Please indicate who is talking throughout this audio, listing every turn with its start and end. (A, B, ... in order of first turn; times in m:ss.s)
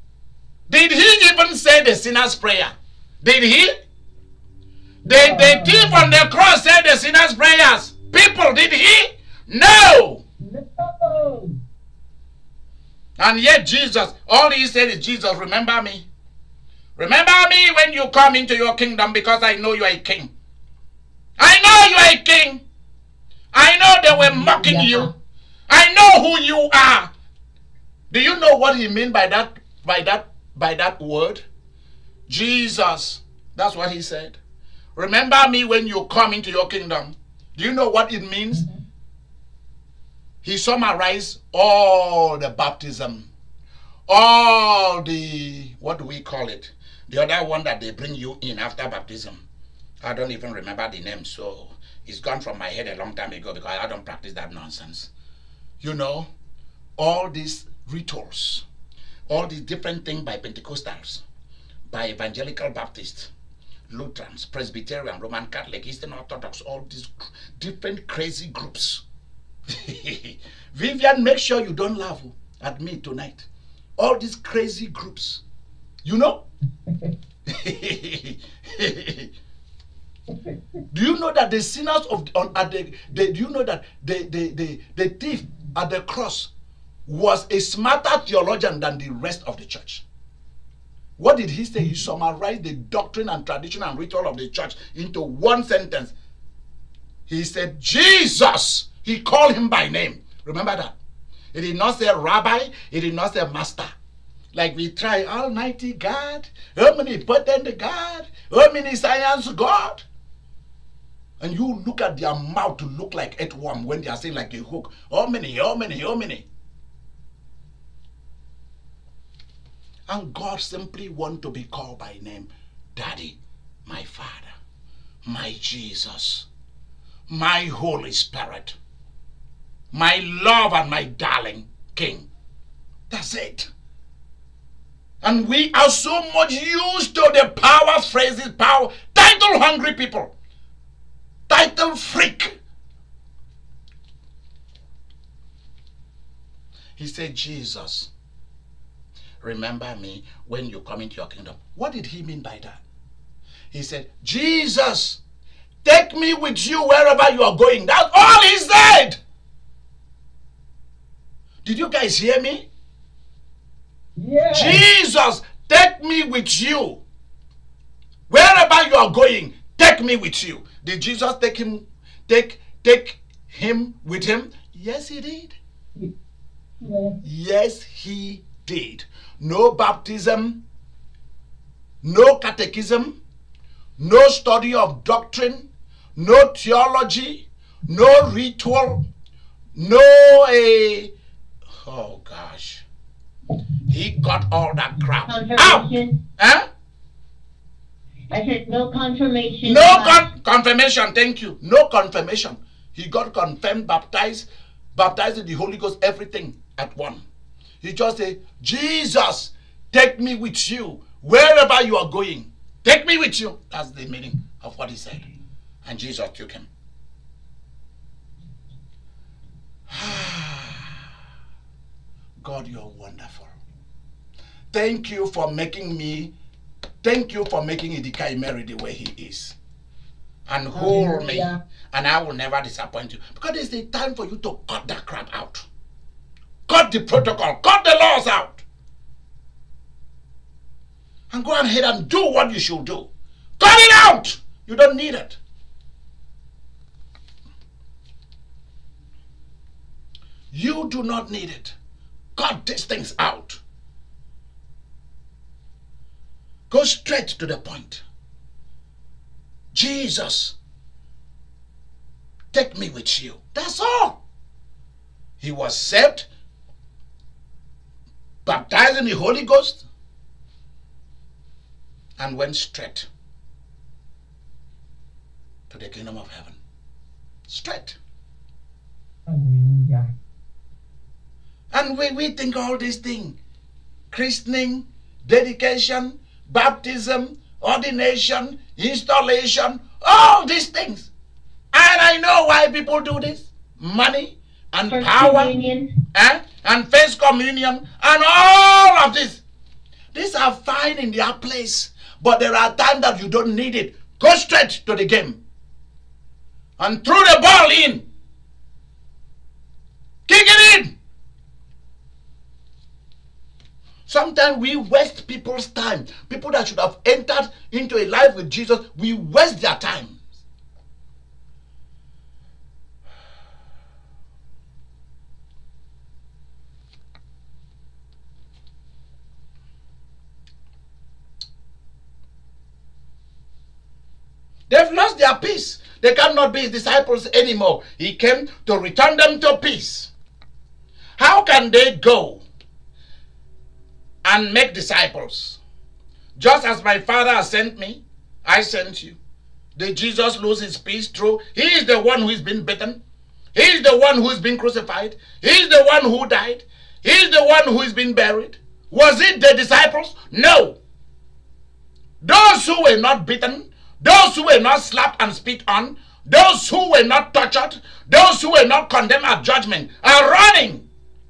0:00.7-0:03.7 A
0:05.0-0:06.1 B
0:05.0-0:10.2 A
0:10.4-0:11.6 B
0:13.2-0:16.0 A
0:17.0-0:20.3 A
0:21.4-0:22.6 A
0:23.5-0:25.1 A
0:24.4-0:25.1 B
0:25.7-0:27.1 A
0:28.1-0:31.4 A
0:32.3-0:34.4 A
0:35.0-0:38.6 A
0:40.4-0:43.3 A
0:44.1-0:49.4 A
0:50.0-0:55.1 A
0:55.8-0:56.3 A
0:57.0-0:58.6 A
0:59.3-1:01.2 A
1:01.9-1:03.3 A
1:03.9-1:09.0 A
1:09.7-1:13.5 A
1:14.0-1:15.4 A
1:16.0-1:16.4 A
1:17.5-1:19.3 A
1:20.9-1:26.5 A
1:27.0-1:30.0 A
1:31.2-1:36.1 A
1:37.3-1:40.9 A
1:41.5-1:43.9 A
1:44.5-1:50.0 A
1:51.4-1:56.4 A
2:00.1-2:04.5 A
2:05.2-2:06.5 A
2:07.3-2:08.8 A
2:09.9-2:12.3 A
2:13.1-2:13.7 A
2:15.2-2:20.3 A
2:21.5-2:22.5 A
2:27.0-2:28.1 A
2:29.4-2:32.8 A
2:33.7-2:35.2 A
2:35.8-2:39.2 A
2:41.6-2:42.7 A
2:44.2-2:44.8 B
2:44.5-2:47.0 A
2:48.3-2:55.6 A
2:56.8-2:57.2 B
2:57.2-3:00.6 A
3:02.0-3:03.2 A
3:04.0-3:09.0 A
3:09.7-3:11.1 A
3:11.8-3:12.8 A
3:13.9-3:16.6 A
3:15.3-3:16.2 C
3:18.3-3:20.2 C
3:19.6-3:27.2 A
3:27.8-3:35.2 A
3:35.8-3:36.7 A
3:39.9-3:41.0 A
3:42.4-3:43.5 A
3:44.7-3:46.3 A
3:47.0-3:49.6 A
3:50.4-3:55.6 A
3:50.7-3:51.6 B
3:56.7-3:58.6 A
4:01.3-4:05.4 A
4:10.5-4:11.7 A
4:12.4-4:13.6 A
4:16.7-4:18.0 A
4:19.7-4:20.5 A
4:22.5-4:24.2 A
4:25.4-4:26.3 A
4:28.4-4:29.8 A
4:32.2-4:33.1 A
4:35.7-4:36.6 A
4:37.5-4:38.0 A
4:39.3-4:40.1 B
4:41.7-4:43.4 A
4:44.1-4:51.1 A
4:51.7-4:55.5 A
4:54.9-4:55.9 C
4:56.1-4:59.4 A
5:00.1-5:05.4 A
5:06.8-5:08.0 A
5:10.3-5:10.9 A
5:14.1-5:20.2 A
5:34.7-5:40.1 A
5:41.2-5:42.4 A
5:44.2-5:45.6 A
5:46.4-5:49.2 A
5:49.8-5:53.0 A
5:53.5-6:00.8 A
6:02.2-6:10.8 A